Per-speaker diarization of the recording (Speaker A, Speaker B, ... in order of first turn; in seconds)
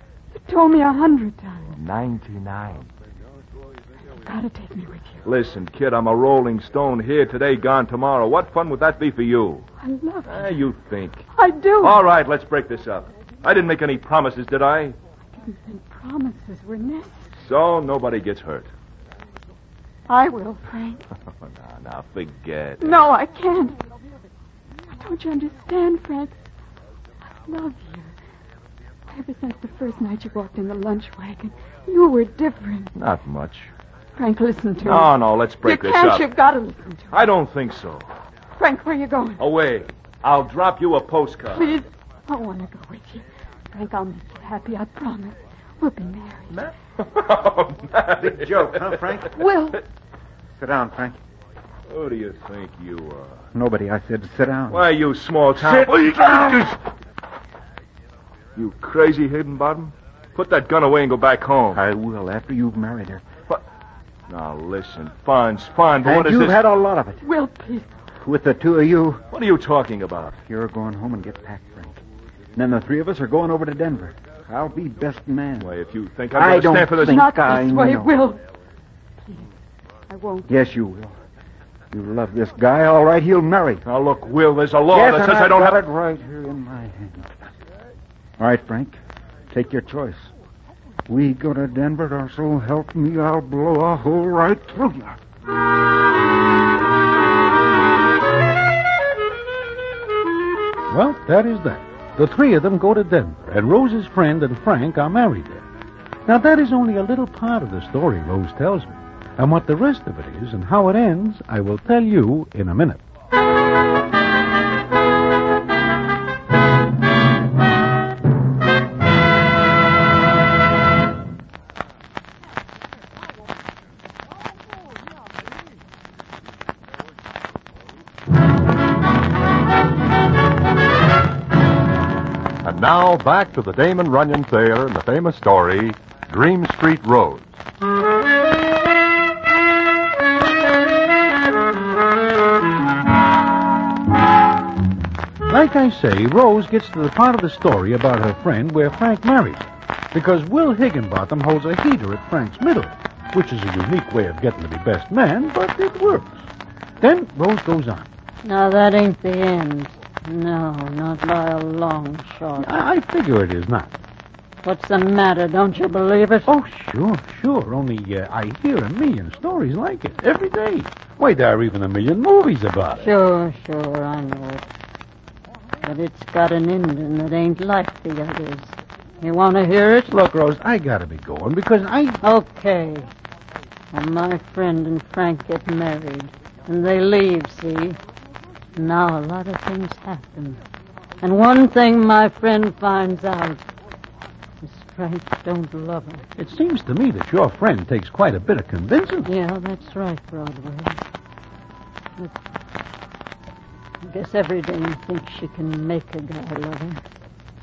Speaker A: 0.3-1.7, 4.2-5.2, 9.8-10.6, 11.3-12.0, 15.3-17.3, 20.1-21.0, 22.8-23.8, 24.9-26.4, 27.4-28.1, 29.1-32.9, 34.2-37.2, 38.6-39.4, 41.5-46.6, 49.3-49.8, 67.2-67.9, 77.0-78.4, 80.1-80.5
Speaker B: 1.8-2.9, 5.2-9.7, 10.3-11.3, 11.8-15.0, 17.4-18.7, 21.6-23.0, 33.0-33.7, 34.8-36.3, 37.1-38.1, 39.4-41.7, 46.5-49.0, 51.9-53.5, 54.7-56.7, 58.6-61.8, 64.3-66.6, 69.3-70.4, 75.6-77.3, 83.8-85.8
Speaker C: 48.2-49.4, 50.5-51.2, 53.5-54.8, 55.5-56.7, 61.7-63.2, 66.0-67.2, 68.2-69.2, 70.5-72.0, 72.5-75.7, 76.3-78.1, 80.5-81.2, 81.9-83.8, 84.9-87.5, 88.4-89.0, 89.5-90.3, 91.1-95.2
Speaker D: 100.9-105.7, 106.3-113.0, 145.5-156.5, 157.0-158.1, 162.6-163.9, 166.5-173.1, 180.1-182.2, 196.4-199.3
Speaker E: 132.6-137.6
Speaker F: 158.4-162.7, 164.6-166.5, 173.0-174.7, 175.8-180.1, 182.2-183.1, 183.9-188.0, 188.8-190.6, 191.2-193.7, 194.6-196.2, 199.3-201.0, 204.0-207.0